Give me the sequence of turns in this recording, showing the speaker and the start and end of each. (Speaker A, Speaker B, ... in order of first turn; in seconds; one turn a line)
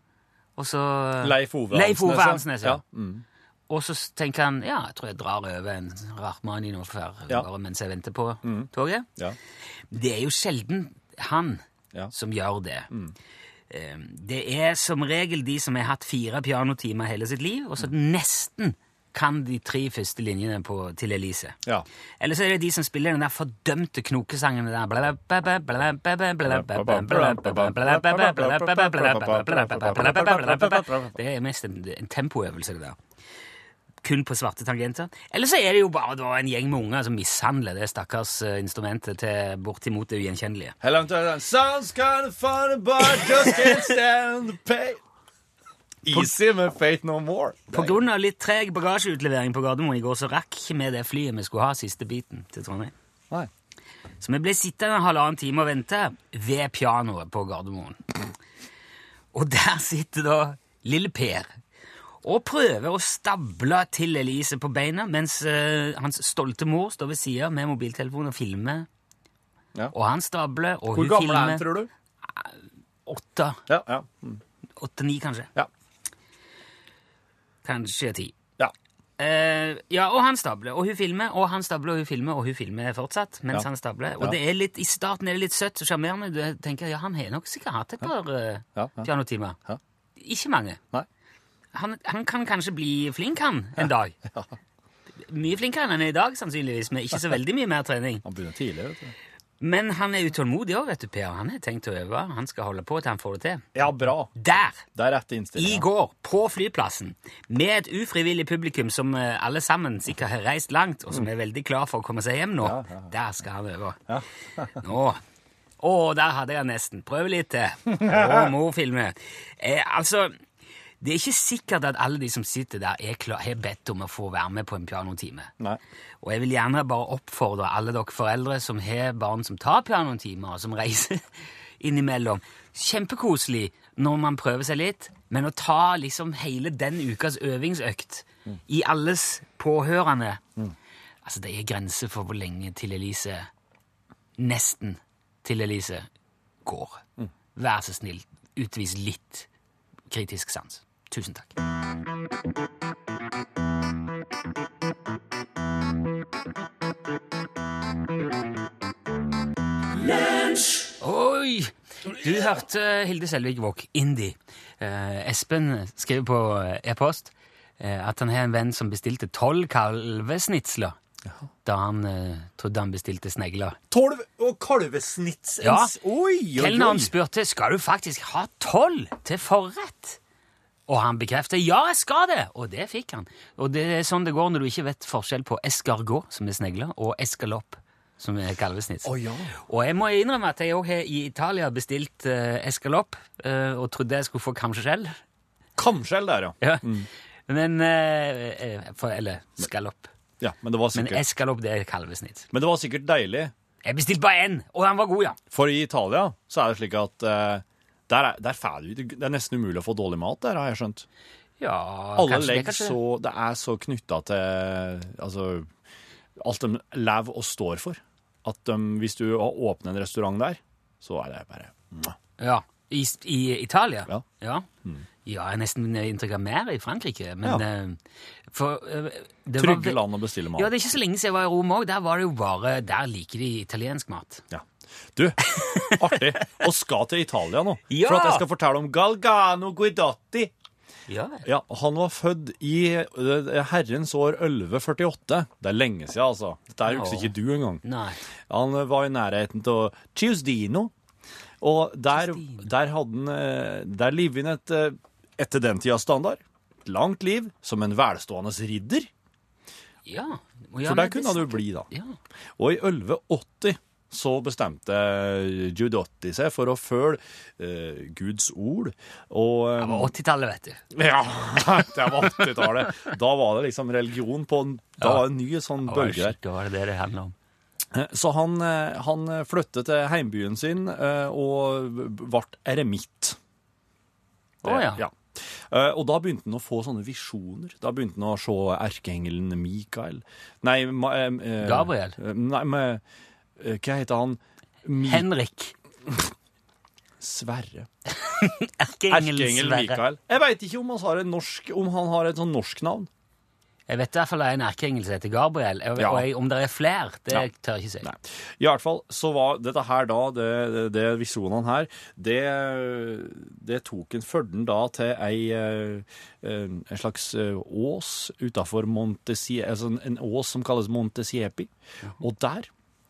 Speaker A: 0.6-2.8
Speaker B: 1.2-3.2
Speaker A: 3.7-9.1
Speaker B: 8.4-9.4
Speaker A: 9.9-12.9
Speaker A: 13.7-21.6
Speaker A: 22.2-33.0
Speaker B: 26.4-31.2
Speaker A: 34.0-40.7
Speaker B: 40.8-45.0
Speaker B: 46.0-48.0
Speaker A: 47.7-52.9
Speaker A: 54.2-58.0
Speaker A: 59.3-61.6
Speaker A: 62.2-68.9
Speaker A: 69.9-71.7
Speaker B: 70.9-71.9
Speaker A: 73.0-73.6
Speaker B: 73.7-74.4
Speaker A: 74.8-75.5
Speaker A: 77.6-78.3
Speaker A: 79.2-89.6
Speaker B: 88.7-89.1
Speaker A: 90.2-90.8
Speaker A: 91.7-94.1
Speaker A: 95.2-98.2
Speaker B: 98.2-99.1
Speaker A: 99.6-103.7
Speaker B: 103.7-104.3
Speaker A: 104.3-104.8
Speaker B: 104.8-105.8
Speaker A: 105.5-114.0
Speaker B: 112.6-113.1
Speaker B: 114.1-114.8
Speaker A: 114.8-115.2
Speaker A: 115.8-120.3
Speaker B: 117.9-118.5
Speaker A: 121.0-125.5
Speaker A: 126.2-140.4
Speaker A: 141.2-143.5
Speaker A: 144.4-146.1
Speaker A: 146.6-147.0
Speaker A: 147.5-149.5
Speaker A: 150.1-151.5
Speaker A: 161.0-170.9
Speaker A: 171.6-173.8
Speaker B: 173.9-177.1
Speaker A: 175.6-175.9
Speaker A: 176.5-180.2
Speaker A: 180.9-195.2
Speaker B: 189.0-189.5
Speaker B: 195.8-197.1
Speaker A: 196.6-200.1
Speaker B: 200.4-201.2
Speaker A: 200.9-202.5
Speaker B: 202.5-203.5
Speaker A: 203.8-205.4
Speaker B: 205.5-211.1
Speaker A: 211.6-213.0
Speaker B: 212.2-215.7
Speaker B: 216.4-222.2
Speaker A: 222.4-224.7
Speaker A: 225.2-230.0
Speaker B: 229.6-230.7
Speaker A: 230.6-234.4
Speaker B: 234.5-240.5
Speaker A: 235.4-236.5
Speaker A: 237.9-238.4
Speaker A: 241.1-241.4
Speaker B: 241.4-247.8
Speaker A: 246.8-248.2
Speaker B: 248.5-250.9
Speaker B: 251.6-259.1
Speaker A: 252.1-252.7
Speaker A: 260.1-262.1
Speaker B: 260.8-261.9
Speaker B: 262.6-270.1
Speaker A: 269.8-270.8
Speaker B: 270.9-276.4
Speaker A: 275.0-275.2
Speaker A: 275.8-277.3
Speaker B: 277.9-283.4
Speaker B: 284.6-293.0
Speaker A: 284.6-285.0
Speaker A: 291.6-292.1
Speaker B: 293.6-295.3
Speaker A: 295.0-295.7
Speaker B: 296.1-296.3
Speaker B: 297.2-297.9
Speaker A: 298.1-300.0
Speaker B: 299.1-303.1
Speaker A: 303.9-308.1
Speaker B: 306.0-306.2
Speaker B: 308.0-322.7